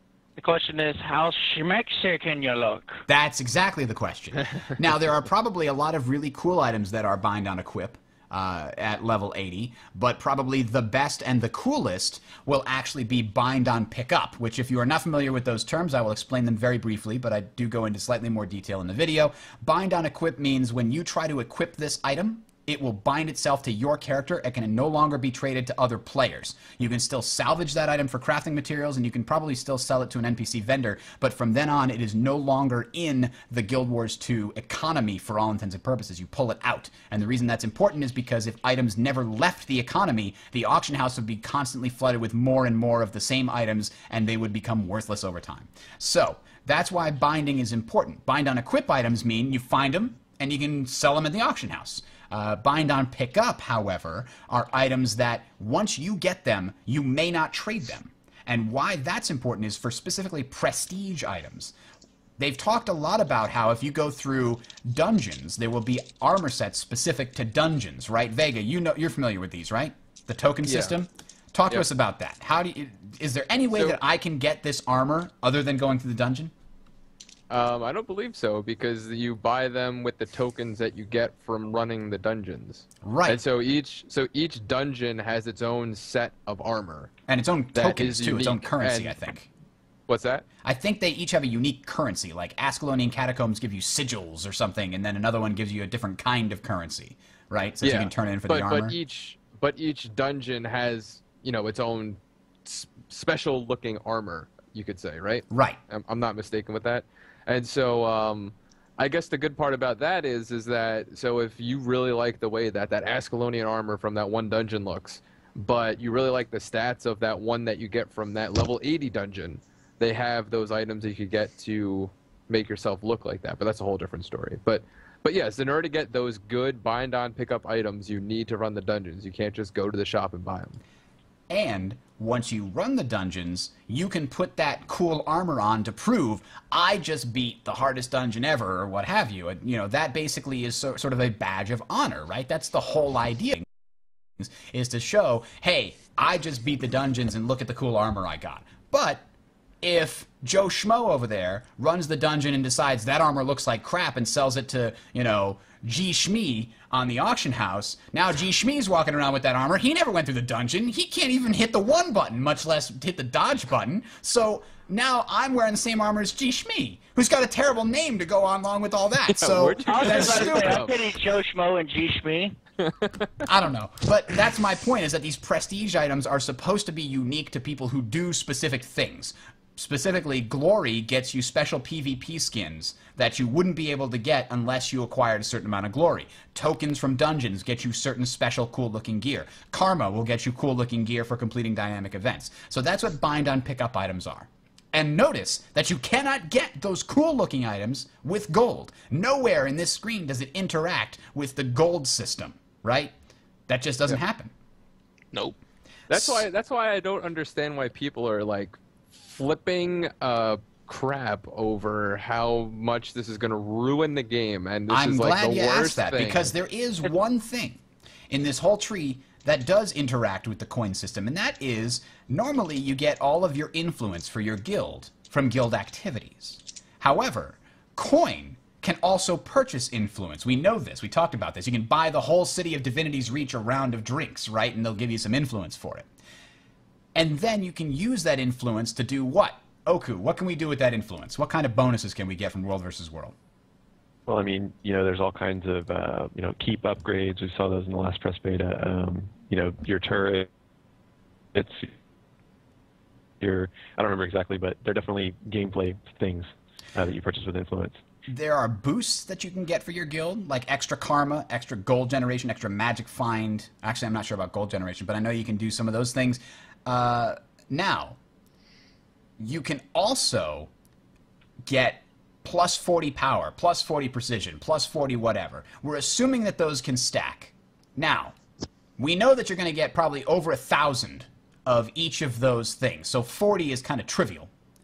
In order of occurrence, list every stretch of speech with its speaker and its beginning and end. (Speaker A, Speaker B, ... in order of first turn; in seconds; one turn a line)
Speaker A: 0.4-3.0
Speaker B: 3.1-61.7
Speaker B: 62.4-76.5
Speaker C: 70.6-71.0
Speaker C: 73.7-74.0
Speaker C: 77.5-87.1
Speaker B: 83.0-83.4
Speaker B: 87.3-89.5
Speaker C: 87.7-89.2
Speaker C: 90.1-90.4
Speaker B: 90.6-99.0
Speaker C: 97.8-130.8
Speaker B: 105.5-105.8
Speaker B: 131.5-143.7
Speaker B: 144.4-149.2
Speaker B: 149.8-170.9
Speaker C: 169.3-170.9
Speaker A: 169.9-172.5
Speaker C: 172.8-173.2
Speaker B: 173.4-203.1
Speaker B: 203.7-204.5
Speaker C: 206.1-208.8
Speaker C: 209.3-216.5
Speaker B: 214.9-236.1
Speaker B: 237.1-243.3
Speaker D: 244.3-250.5
Speaker D: 251.5-251.9
Speaker D: 253.4-258.0
Speaker B: 258.3-268.2
Speaker B: 269.4-270.7
Speaker B: 271.6-278.4
Speaker B: 279.0-284.5